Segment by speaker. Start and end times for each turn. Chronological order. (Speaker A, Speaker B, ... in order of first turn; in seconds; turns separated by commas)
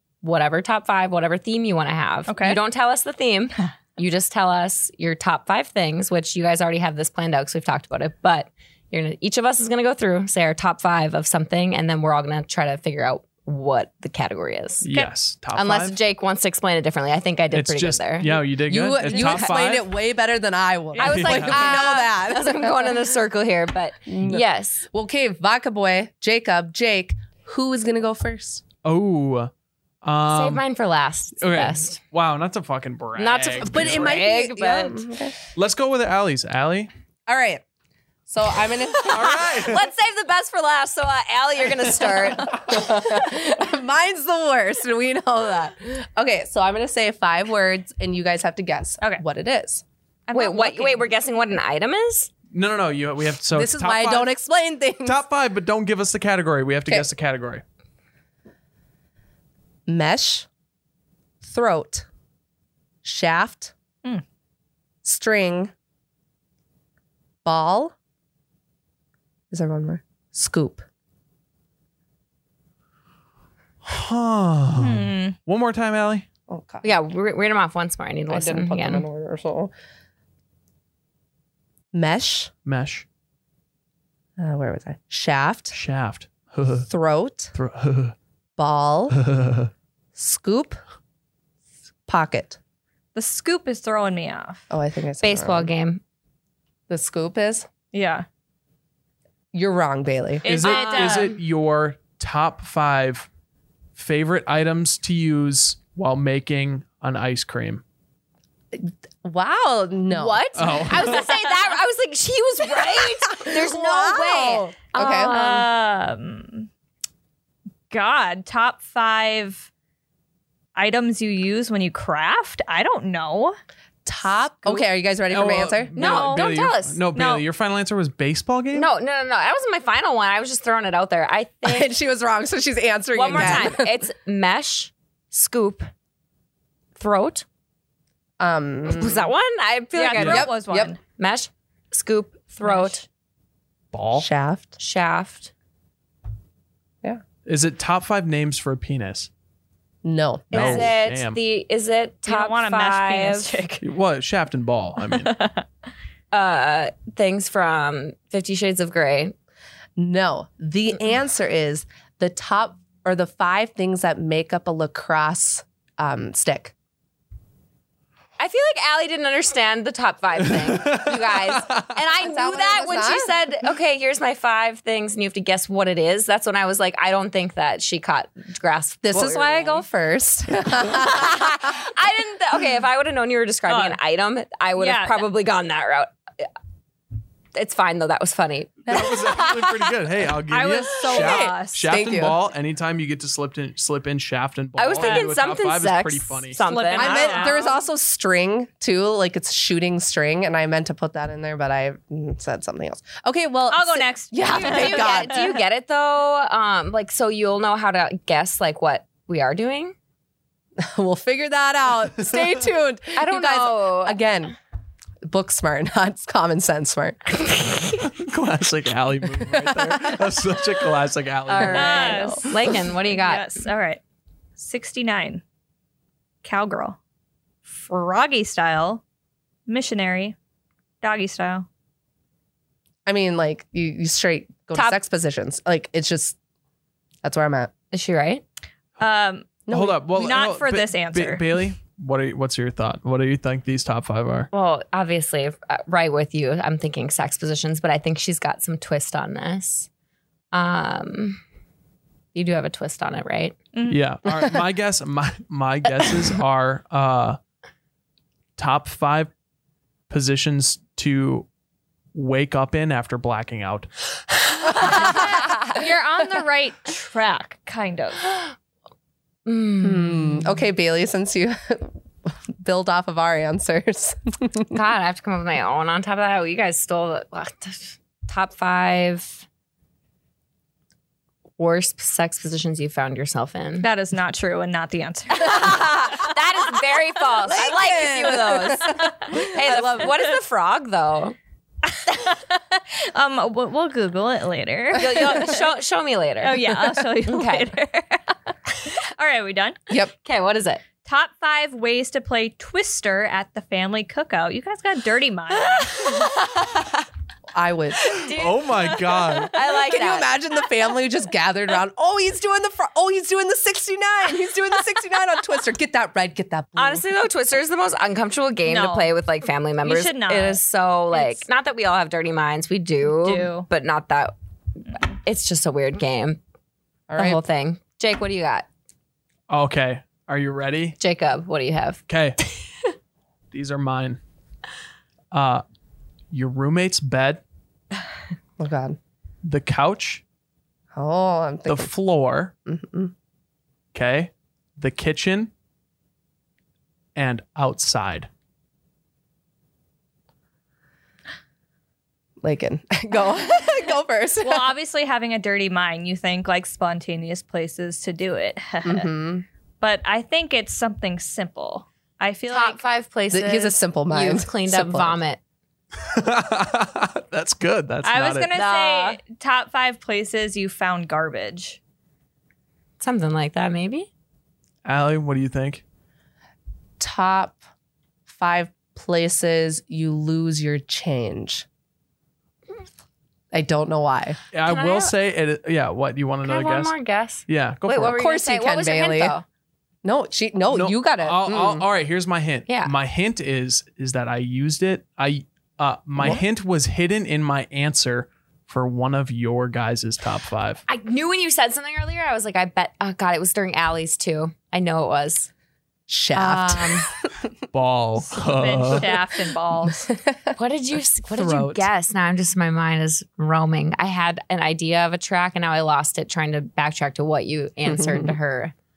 Speaker A: 0.2-14.9, Speaker B: 2.3-2.6, Speaker C: 14.8-16.0, Speaker A: 15.5-18.4, Speaker C: 17.5-19.9, Speaker D: 18.6-23.0, Speaker A: 19.1-19.5, Speaker A: 21.0-24.8, Speaker C: 21.0-21.8, Speaker D: 24.1-28.6, Speaker C: 28.8-29.5, Speaker C: 30.0-30.6, Speaker A: 30.3-32.0, Speaker C: 31.4-34.2, Speaker A: 33.2-35.0, Speaker D: 33.6-35.3, Speaker C: 35.5-36.9, Speaker D: 37.3-37.6, Speaker D: 38.3-39.6, Speaker C: 39.0-39.9, Speaker A: 39.1-42.9, Speaker D: 42.5-49.8, Speaker B: 50.3-51.0, Speaker A: 50.3-52.3, Speaker C: 52.5-54.3, Speaker D: 53.5-55.2, Speaker C: 55.0-57.6, Speaker D: 59.9-60.5, Speaker D: 61.4-62.0, Speaker D: 63.0-63.7, Speaker D: 65.0-65.7, Speaker D: 67.4-67.9, Speaker D: 69.5-70.8, Speaker C: 73.8-76.3, Speaker B: 74.8-75.3, Speaker D: 76.5-76.8, Speaker A: 76.8-79.0, Speaker D: 78.3-79.7, Speaker D: 81.9-82.5, Speaker C: 82.6-83.0, Speaker D: 84.4-85.8, Speaker C: 85.7-86.9, Speaker D: 86.9-87.5, Speaker C: 87.5-88.1, Speaker D: 88.6-89.2, Speaker C: 89.1-89.7, Speaker D: 90.1-90.8, Speaker D: 92.1-92.6, Speaker B: 93.1-94.7, Speaker D: 94.7-95.7, Speaker A: 95.2-96.0, Speaker D: 96.9-97.7, Speaker B: 97.9-98.2, Speaker D: 99.5-100.4, Speaker B: 100.4-101.4, Speaker C: 100.4-103.3, Speaker A: 100.6-101.3, Speaker C: 104.0-107.8, Speaker D: 108.7-110.4, Speaker A: 110.1-115.7, Speaker C: 110.5-111.2, Speaker D: 112.7-115.4, Speaker B: 115.3-116.7, Speaker B: 117.9-119.7, Speaker B: 120.7-123.6, Speaker D: 124.0-125.9, Speaker C: 125.3-128.9, Speaker A: 126.0-127.0, Speaker B: 126.0-126.5, Speaker B: 127.1-127.4, Speaker A: 128.7-131.9, Speaker D: 131.6-133.9, Speaker A: 133.1-135.9, Speaker A: 137.0-137.4, Speaker D: 138.4-139.3, Speaker A: 138.9-140.5, Speaker B: 139.9-141.0, Speaker D: 140.2-140.9, Speaker A: 141.2-143.0, Speaker B: 142.6-143.0, Speaker C: 143.9-144.3, Speaker D: 144.2-144.8, Speaker A: 144.8-145.5, Speaker C: 147.4-149.3, Speaker D: 150.0-150.9, Speaker C: 150.5-151.4, Speaker A: 150.5-153.6, Speaker B: 152.2-153.8, Speaker C: 153.8-155.3, Speaker B: 155.1-155.7, Speaker A: 156.3-159.3, Speaker D: 160.0-166.7, Speaker A: 168.4-179.8, Speaker C: 170.6-171.9, Speaker D: 172.2-173.3, Speaker D: 179.0-181.5, Speaker A: 180.8-186.5, Speaker B: 183.7-184.0, Speaker B: 184.8-185.2, Speaker A: 187.5-189.8, Speaker C: 188.9-196.6, Speaker B: 190.5-191.9, Speaker D: 191.2-192.3, Speaker A: 194.8-197.5, Speaker B: 195.0-195.3, Speaker B: 196.6-197.8, Speaker D: 196.9-205.4, Speaker B: 203.7-205.6, Speaker A: 204.4-209.9, Speaker D: 210.8-214.5, Speaker A: 213.2-214.2, Speaker D: 215.2-217.5, Speaker C: 218.1-222.1, Speaker D: 219.5-220.2, Speaker A: 221.5-223.5, Speaker B: 221.7-224.0, Speaker B: 224.6-225.4, Speaker B: 226.4-227.0, Speaker B: 227.7-229.0, Speaker B: 229.7-230.3, Speaker B: 231.0-231.7, Speaker D: 233.1-236.4, Speaker D: 237.2-237.7, Speaker A: 237.9-238.4, Speaker B: 239.0-241.4, Speaker D: 239.7-240.0, Speaker C: 239.7-244.5, Speaker A: 244.5-249.9, Speaker A: 250.5-251.4, Speaker A: 252.3-253.6, Speaker C: 253.9-257.4, Speaker C: 258.6-259.3, Speaker C: 260.1-261.5, Speaker C: 262.1-263.9, Speaker B: 264.7-268.3, Speaker A: 269.4-270.6, Speaker D: 269.8-274.7, Speaker A: 274.7-279.4, Speaker A: 281.6-283.9, Speaker B: 283.8-286.3, Speaker A: 285.4-291.4, Speaker D: 287.4-290.1, Speaker B: 287.5-290.3, Speaker B: 291.9-295.6, Speaker A: 294.9-297.7, Speaker B: 296.4-299.8, Speaker A: 300.2-300.8, Speaker B: 301.0-306.3, Speaker A: 305.6-307.0, Speaker D: 307.5-308.3, Speaker A: 308.1-310.3, Speaker C: 308.3-309.5, Speaker B: 309.1-309.4, Speaker D: 309.7-317.0, Speaker A: 316.8-324.3, Speaker B: 318.6-319.1, Speaker B: 319.8-320.6, Speaker B: 321.1-321.4, Speaker B: 323.0-323.7, Speaker A: 325.0-326.4, Speaker D: 327.1-327.4, Speaker A: 327.1-328.7, Speaker C: 329.5-331.0, Speaker A: 331.0-332.0, Speaker C: 332.1-332.4, Speaker C: 333.5-334.2, Speaker C: 335.3-335.6, Speaker C: 336.3-337.4, Speaker D: 338.6-339.0, Speaker C: 339.4-340.2, Speaker D: 340.9-341.9, Speaker C: 341.7-342.5, Speaker D: 342.6-343.1, Speaker C: 343.9-345.5, Speaker C: 347.1-348.3, Speaker D: 352.4-354.7, Speaker B: 354.4-359.1, Speaker D: 358.8-359.4, Speaker B: 359.8-362.8, Speaker A: 362.5-365.4, Speaker D: 363.3-365.2, Speaker C: 366.0-368.5, Speaker B: 368.0-371.8, Speaker A: 368.5-369.2, Speaker A: 373.0-374.1, Speaker C: 374.8-375.8, Speaker D: 377.0-377.6, Speaker D: 378.3-381.6, Speaker D: 383.5-384.4, Speaker C: 384.5-386.9, Speaker A: 384.6-385.1, Speaker A: 386.4-389.4, Speaker C: 387.5-388.2, Speaker D: 388.0-389.3, Speaker D: 390.0-391.9, Speaker C: 390.7-400.8, Speaker A: 400.9-405.5, Speaker D: 406.1-407.3, Speaker A: 406.3-407.1, Speaker C: 407.7-409.1, Speaker B: 408.4-410.0, Speaker D: 409.9-410.6, Speaker A: 410.6-418.7, Speaker C: 411.3-411.9, Speaker D: 417.8-418.4